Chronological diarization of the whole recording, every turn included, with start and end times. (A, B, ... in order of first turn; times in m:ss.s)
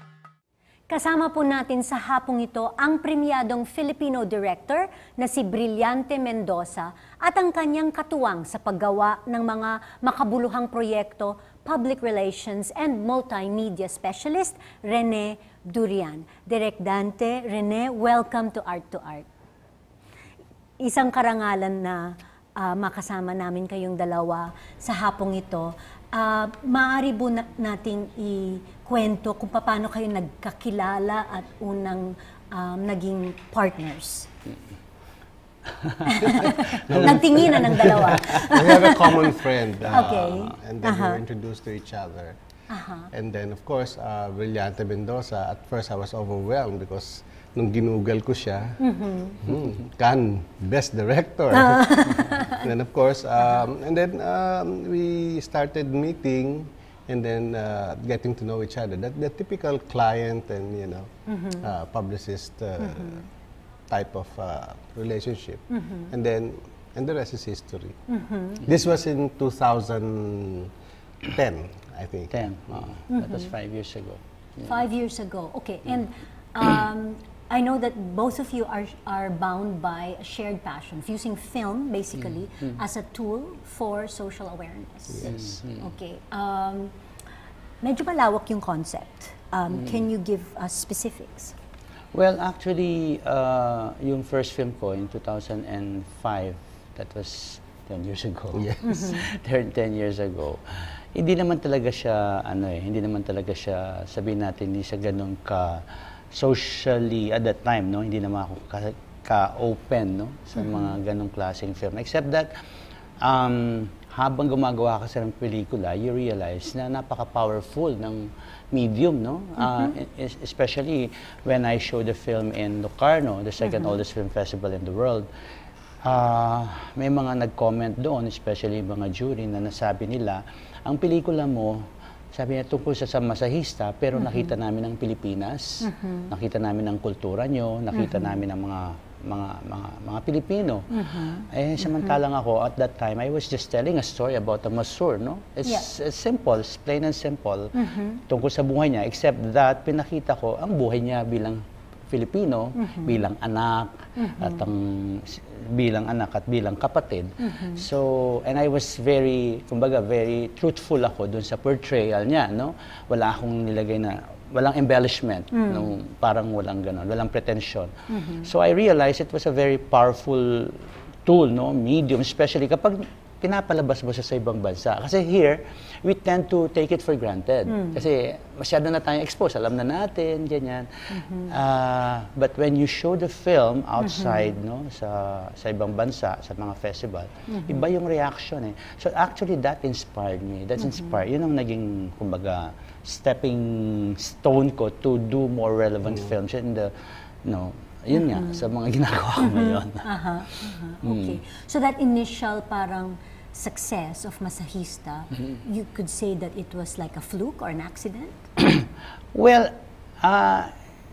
0:00.9-0:19.3 A
0:20.8-0:34.3 A
0:36.0-0:39.3 A
0:36.3-0:42.4 B
0:39.9-0:41.2 A
0:42.7-0:43.1 A
0:43.1-0:48.8 B
0:48.8-0:49.4 A
0:49.4-1:03.3 B
0:51.6-0:52.5 A
1:01.3-1:01.6 A
1:02.8-1:03.1 A
1:03.9-1:08.0 B
1:05.8-1:06.1 A
1:08.1-1:08.6 A
1:08.6-1:10.7 B
1:11.3-1:12.9 B
1:12.3-1:14.8 C
1:13.1-1:13.5 A
1:14.6-1:26.9 A
1:25.1-1:25.5 B
1:25.2-1:25.9 C
1:27.8-1:31.5 A
1:29.7-1:30.0 C
1:32.1-1:52.5 C
1:38.9-1:39.2 A
1:50.6-1:50.9 A
1:53.2-2:05.3 C
1:59.6-1:59.9 A
2:03.6-2:04.0 A
2:06.0-3:16.9 C
2:14.2-2:14.5 A
2:15.8-2:16.3 A
2:17.9-2:18.3 A
2:20.9-2:22.2 A
2:27.8-2:28.2 A
2:32.8-2:33.2 A
2:34.2-2:34.7 A
2:37.4-2:37.8 A
2:45.5-2:45.9 A
2:48.1-2:48.5 A
2:57.7-2:58.0 A
3:01.1-3:01.5 A
3:04.0-3:04.5 A
3:07.5-3:07.9 A
3:10.8-3:11.1 A
3:17.4-3:20.1 C
3:18.2-3:18.6 A
3:19.4-3:28.4 A
3:21.0-3:21.4 C
3:29.3-3:30.7 C